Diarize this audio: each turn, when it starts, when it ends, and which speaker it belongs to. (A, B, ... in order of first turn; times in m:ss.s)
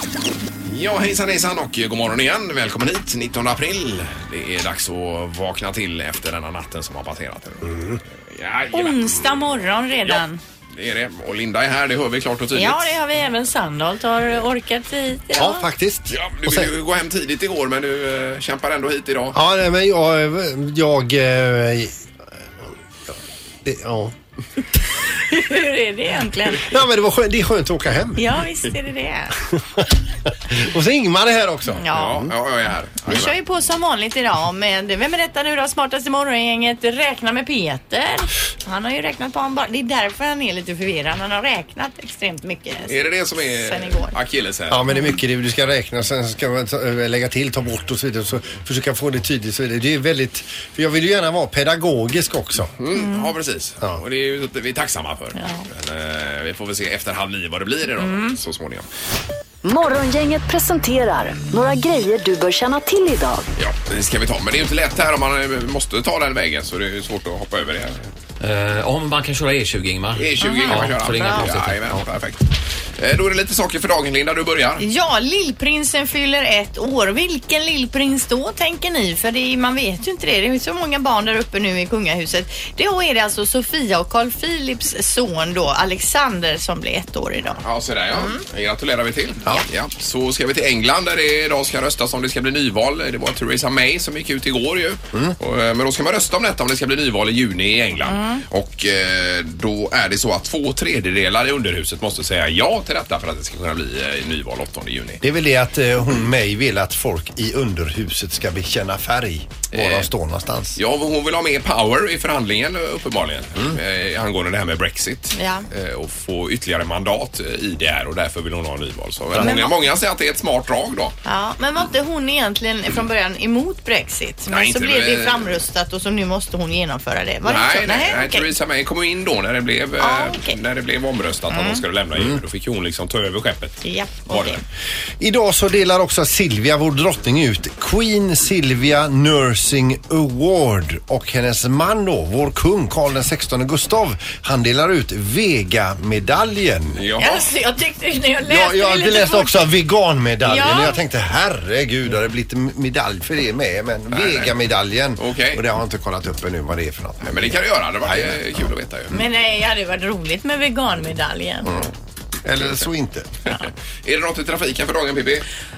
0:00.7-0:07.7 A
0:07.6-0:08.0 B
0:08.3-0:10.2 A
0:08.7-0:10.4 C
0:10.7-0:13.0 A
0:12.5-0:15.6 C
0:15.3-0:16.7 B
0:16.1-0:19.4 A
0:19.3-0:22.0 B
0:23.6-0:24.1 B
0:25.2-0:26.7 C
0:26.6-0:28.4 B
0:28.2-0:29.4 C
0:29.5-0:29.9 B
0:30.4-0:32.3 B
0:31.8-0:32.3 C
0:31.9-0:33.4 A
0:33.0-0:44.1 C
0:42.8-0:44.8 A
0:44.7-0:52.7 B
0:52.8-0:58.9 A
0:52.9-0:53.3 C
0:55.4-0:55.6 C
0:58.0-0:58.4 C
0:59.6-1:03.5 D
1:03.6-1:08.0 A
1:08.4-1:12.0 E
1:10.1-1:14.8 A
1:10.4-1:11.5 C
1:14.8-1:27.6 C
1:27.6-1:45.2 A
1:28.1-1:28.4 C
1:38.0-1:38.4 C
1:45.2-1:50.8 B
1:49.7-1:50.1 A
1:50.8-2:01.1 A
1:55.3-1:55.6 C
1:59.4-1:59.8 C
2:01.2-2:08.5 C
2:04.5-2:05.6 A
2:07.4-2:14.6 A
2:10.0-2:10.6 C
2:11.5-2:11.8 C
2:13.8-2:14.6 C
2:15.2-2:27.0 B
2:26.9-2:27.5 A
2:27.2-2:29.6 C
2:28.5-2:38.4 B
2:30.4-2:31.0 C
2:34.1-2:34.6 A
2:35.2-2:35.6 A
2:37.2-2:39.2 A
2:39.1-2:41.8 C
2:42.4-2:43.3 B
2:42.6-2:42.9 A
2:43.4-2:45.5 A